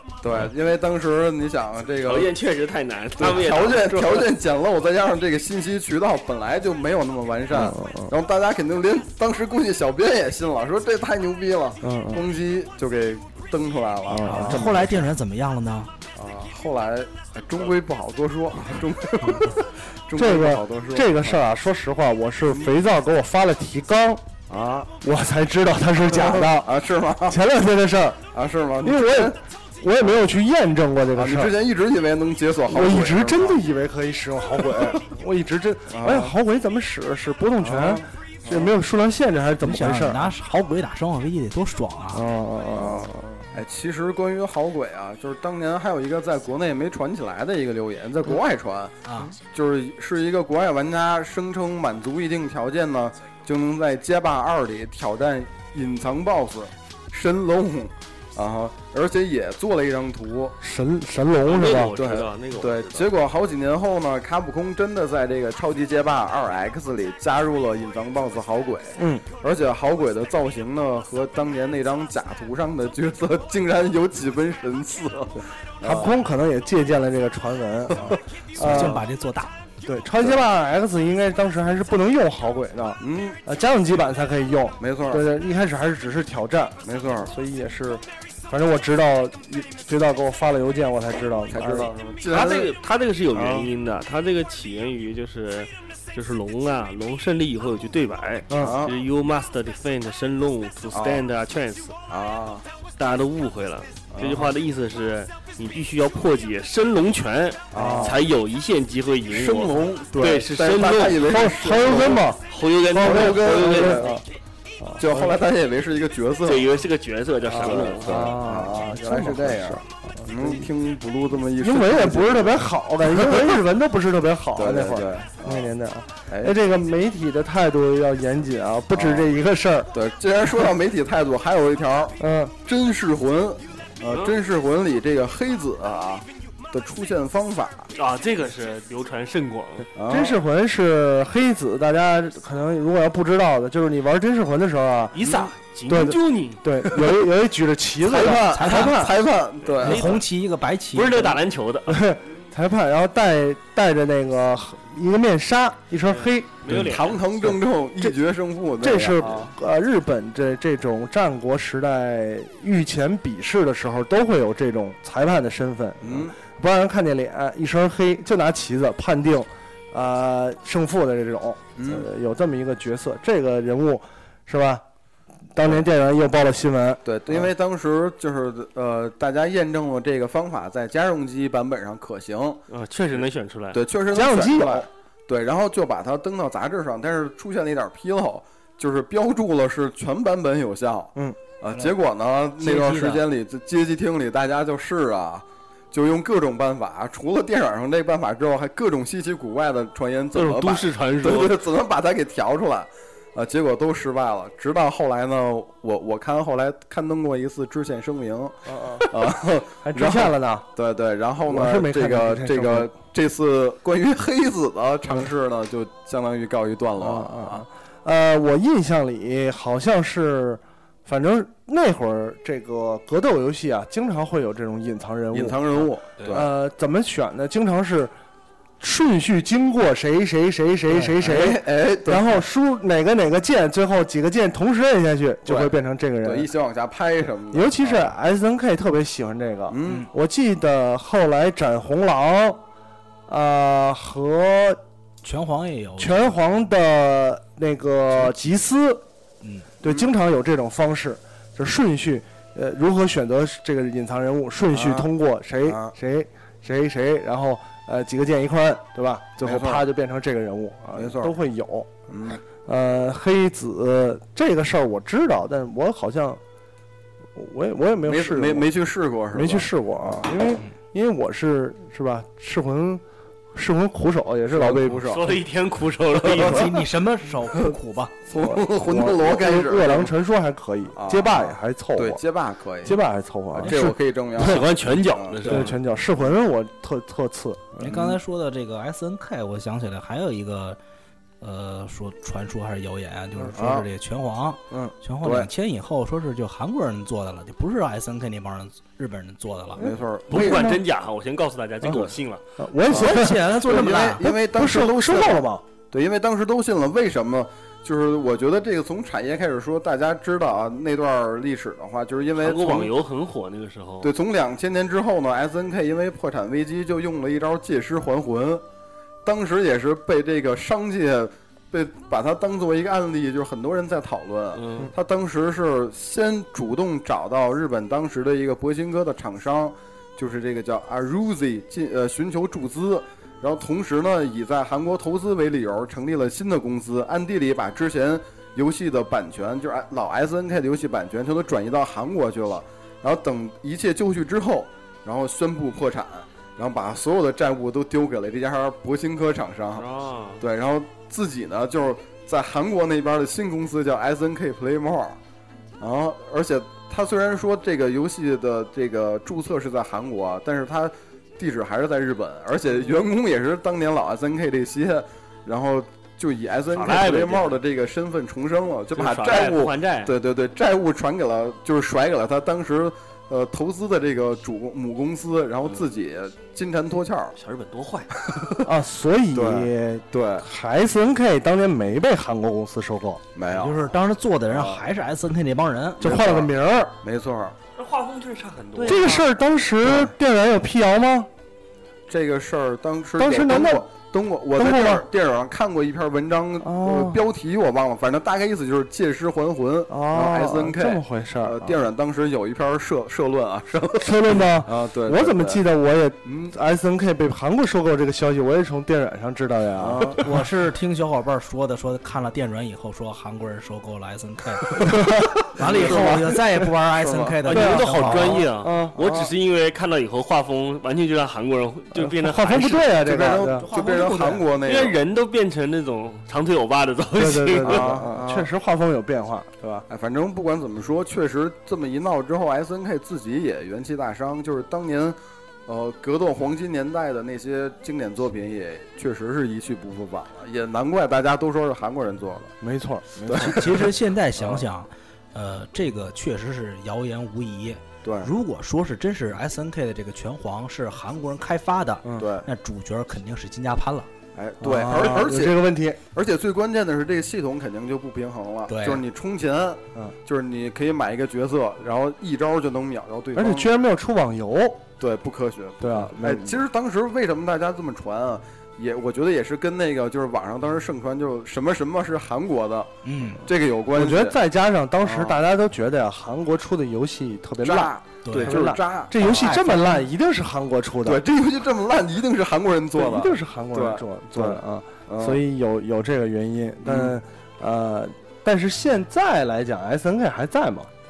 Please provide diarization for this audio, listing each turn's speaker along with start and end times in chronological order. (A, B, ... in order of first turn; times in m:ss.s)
0:00.2-0:02.3 A
0:02.0-0:04.3 B
0:03.2-0:14.9 A
0:07.5-0:08.1 C
0:11.8-0:12.2 C
0:14.1-0:14.9 C
0:14.2-0:15.9 D
0:16.1-0:21.4 A
0:20.2-0:24.2 C
0:24.5-0:24.9 A
0:25.0-0:28.3 C
0:26.1-0:27.4 A
0:28.3-0:29.4 A
0:28.8-0:31.6 C
0:31.2-0:33.6 A
0:32.7-0:40.3 C
0:35.9-0:36.3 A
0:37.6-0:38.7 A
0:39.6-0:42.2 D
0:42.1-0:43.5 C
0:42.7-1:00.6 A
0:49.0-0:49.3 D
1:00.6-1:02.0 C
1:01.4-1:03.1 B
1:01.7-1:16.1 A
1:08.9-1:09.3 C
1:15.8-1:19.0 C
1:17.9-1:19.0 A
1:18.6-1:19.5 D
1:19.8-1:31.9 C
1:23.0-1:23.4 A
1:24.8-1:25.2 A
1:26.8-1:27.3 A
1:31.5-1:32.7 A
1:32.3-1:42.0 B
1:33.3-1:33.7 A
1:38.5-1:38.8 C
1:38.6-1:39.0 A
1:40.9-1:41.2 A
1:42.1-1:42.6 A
1:43.0-1:54.1 B
1:44.1-1:44.5 A
1:47.7-1:48.2 A
1:47.7-1:48.2 C
1:49.3-1:52.2 A
1:51.2-1:54.2 C
1:53.0-1:54.2 A
1:54.8-1:55.4 C
1:55.0-1:56.7 A
1:56.4-1:58.4 B
1:57.4-2:03.6 A
1:58.0-2:00.7 C
2:01.6-2:09.9 C
2:04.6-2:05.7 A
2:06.3-2:06.6 A
2:08.9-2:09.3 A
2:09.9-2:17.9 A
2:12.2-2:12.5 C
2:14.0-2:14.3 B
2:17.9-2:19.9 B
2:20.0-2:20.4 A
2:20.1-2:25.2 C
2:25.1-2:27.1 B
2:25.2-2:25.5 A
2:25.9-2:29.2 C
2:28.0-2:30.2 A
2:28.2-2:29.1 D
2:29.6-2:30.2 B
2:29.8-2:31.4 D
2:30.9-2:32.1 B
2:31.9-2:36.9 C
2:36.1-2:37.6 B
2:36.7-2:39.5 A
2:38.8-2:54.8 C
2:46.0-2:46.4 A
2:51.8-2:52.1 A
2:55.5-2:57.5 C
2:57.0-3:02.6 A
3:02.7-3:03.8 B
3:03.2-3:37.6 A
3:04.1-3:04.9 C
3:12.6-3:13.2 D
3:20.3-3:21.6 B
3:28.6-3:29.1 C
3:29.8-3:30.7 C
3:31.4-3:32.9 C
3:37.0-3:48.1 C
3:45.3-3:46.5 A
3:48.8-3:56.5 C
3:51.2-3:52.4 A
3:55.4-3:58.1 A
3:57.5-4:02.6 C
3:59.7-4:00.1 A
4:03.3-4:04.8 C
4:05.2-4:06.4 D
4:06.0-4:09.0 C
4:09.4-4:09.7 D
4:09.8-4:21.9 C
4:09.8-4:10.1 A
4:14.7-4:15.1 A
4:15.6-4:15.9 A
4:19.4-4:19.8 A
4:20.9-4:21.3 A
4:22.1-4:22.4 A
4:22.6-4:26.4 C
4:27.3-4:28.7 C
4:28.0-4:30.2 A
4:29.3-4:33.0 C
4:33.5-4:35.1 C
4:34.5-4:35.4 A
4:34.9-4:36.7 B
4:36.3-4:36.6 A
4:36.4-4:38.1 D
4:38.3-4:40.1 A
4:38.3-4:42.2 C
4:40.9-4:43.0 A
4:42.8-4:43.9 C
4:43.5-4:45.7 A
4:44.3-4:45.8 B
4:45.4-4:48.0 C
4:47.8-4:50.8 D
4:47.8-4:48.2 A
4:51.4-4:59.8 D
4:53.5-4:53.8 A
4:55.2-4:55.5 A
4:59.8-5:00.7 A
4:59.8-5:00.8 C
5:00.3-5:02.4 B
5:01.8-5:05.6 C
5:02.8-5:04.2 D
5:02.9-5:12.9 A
5:12.4-5:14.1 B
5:14.0-5:18.6 A
5:19.2-5:49.9 A
5:24.5-5:24.9 B
5:49.7-5:50.4 B
5:50.4-5:55.2 A
5:55.8-6:17.3 A
6:06.7-6:07.5 B
6:08.9-6:10.1 B
6:17.4-6:18.2 B
6:18.3-6:18.7 A
6:18.6-6:23.2 C
6:19.3-6:20.4 A
6:23.3-6:23.9 A
6:23.5-6:26.0 D
6:24.5-6:24.8 A
6:26.0-6:26.9 C
6:26.0-6:27.6 A
6:27.8-6:29.2 B
6:28.8-6:31.3 C
6:29.8-6:30.1 A
6:32.1-6:45.6 A
6:33.2-6:33.9 C
6:34.5-6:35.0 C
6:36.6-6:37.2 C
6:39.9-6:41.8 C
6:44.0-6:50.2 C
6:46.2-6:46.5 A
6:49.8-6:50.3 A
6:50.2-6:54.9 D
6:54.8-6:56.4 C
6:55.5-6:58.4 D
6:55.6-6:56.4 A
6:56.9-6:57.4 A
6:57.4-7:03.0 B
6:57.5-6:59.3 C
7:01.9-7:03.7 C
7:02.8-7:05.0 A
7:03.5-7:04.5 D
7:04.6-7:08.0 B
7:07.1-7:09.8 C
7:07.6-7:08.5 A
7:09.7-7:22.5 A
7:22.6-7:23.7 C
7:23.2-7:24.6 A
7:23.4-7:34.1 D
7:28.0-7:28.3 A
7:32.0-7:32.3 C
7:32.2-7:32.5 A
7:34.3-7:43.7 A
7:34.6-7:36.0 C
7:38.7-7:39.0 D
7:43.3-7:44.9 C
7:45.0-7:54.4 A
7:45.8-7:46.6 C
7:53.0-7:53.4 D
7:53.9-8:01.2 C
7:55.0-7:55.4 A
7:57.6-7:59.8 A
7:58.2-8:00.0 D
8:01.0-8:05.4 A
8:02.9-8:10.9 C
8:06.8-8:07.2 A